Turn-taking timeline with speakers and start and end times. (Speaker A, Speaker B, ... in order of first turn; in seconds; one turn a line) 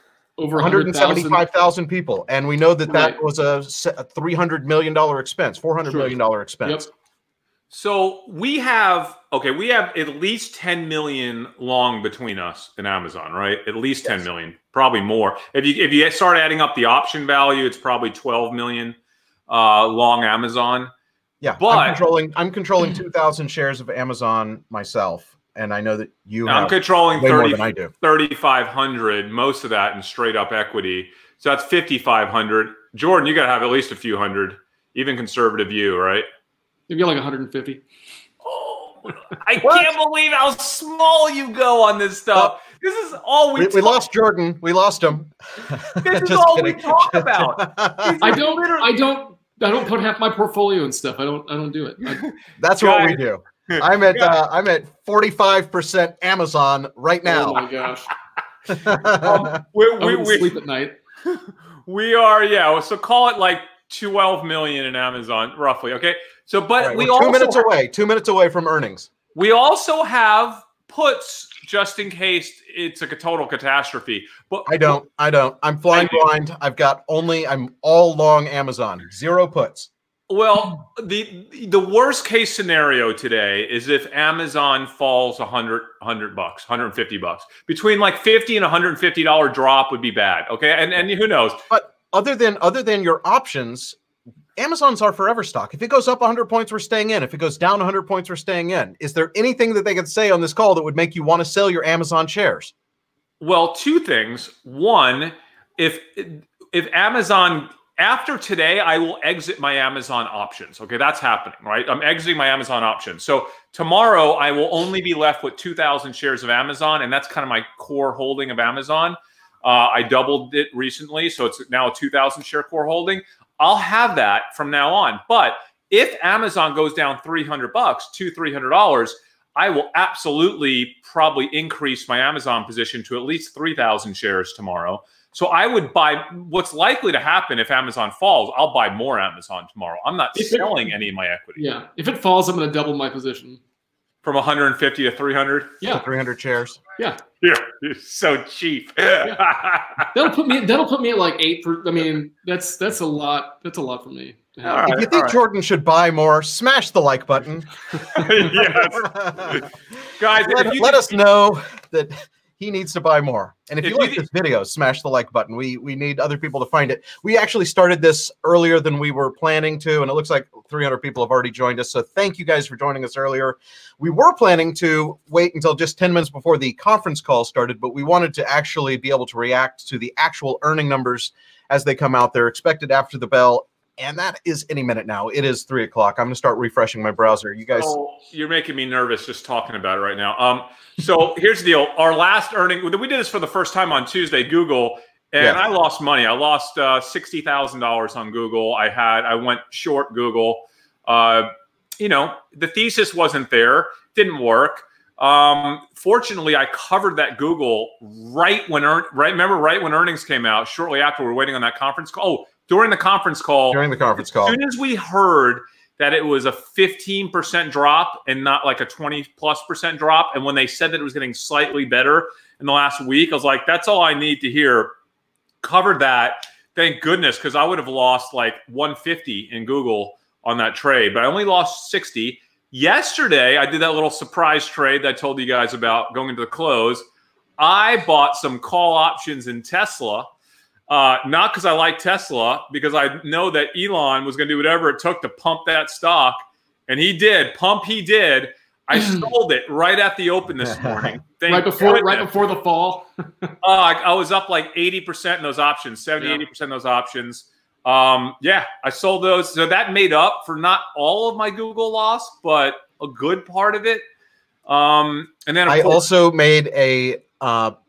Speaker A: 0.4-1.4
Speaker B: 0.6-6.9
Speaker A: 2.9-3.2
Speaker A: 5.8-6.9
Speaker C: 7.7-19.0
Speaker C: 19.5-20.9
Speaker B: 21.4-27.9
Speaker C: 21.6-22.0
Speaker C: 26.5-36.3
Speaker A: 36.9-37.8
Speaker C: 38.4-44.0
Speaker B: 43.6-48.2
Speaker C: 46.0-49.0
Speaker A: 48.2-52.2
Speaker C: 52.1-54.4
Speaker B: 52.6-57.6
Speaker A: 57.2-58.1
Speaker B: 58.7-59.6
Speaker A: 59.2-59.5
Speaker C: 59.6-60.6
Speaker A: 60.0-61.0
Speaker C: 61.3-67.7
Speaker B: 66.8-69.1
Speaker C: 69.3-75.0
Speaker B: 74.7-79.9
Speaker C: 75.9-76.3
Speaker C: 80.3-91.6
Speaker B: 91.7-94.0
Speaker B: 94.6-102.7
Speaker C: 103.4-141.6
Speaker A: 140.3-140.9
Speaker A: 141.6-143.6
Speaker C: 144.2-145.8
Speaker B: 145.8-146.8
Speaker C: 147.4-150.1
Speaker A: 150.1-154.9
Speaker C: 154.6-155.4
Speaker B: 154.9-157.7
Speaker C: 158.1-159.7
Speaker B: 158.4-159.6
Speaker C: 160.2-161.2
Speaker B: 160.4-187.9
Speaker C: 163.8-164.2
Speaker C: 187.8-224.9
Speaker B: 213.7-214.6
Speaker C: 225.6-237.1
Speaker C: 237.6-240.3
Speaker C: 240.9-252.3
Speaker A: 248.9-249.3
Speaker B: 250.6-251.2
Speaker A: 251.5-253.5
Speaker C: 253.6-264.0
Speaker C: 264.7-266.1
Speaker B: 265.7-267.8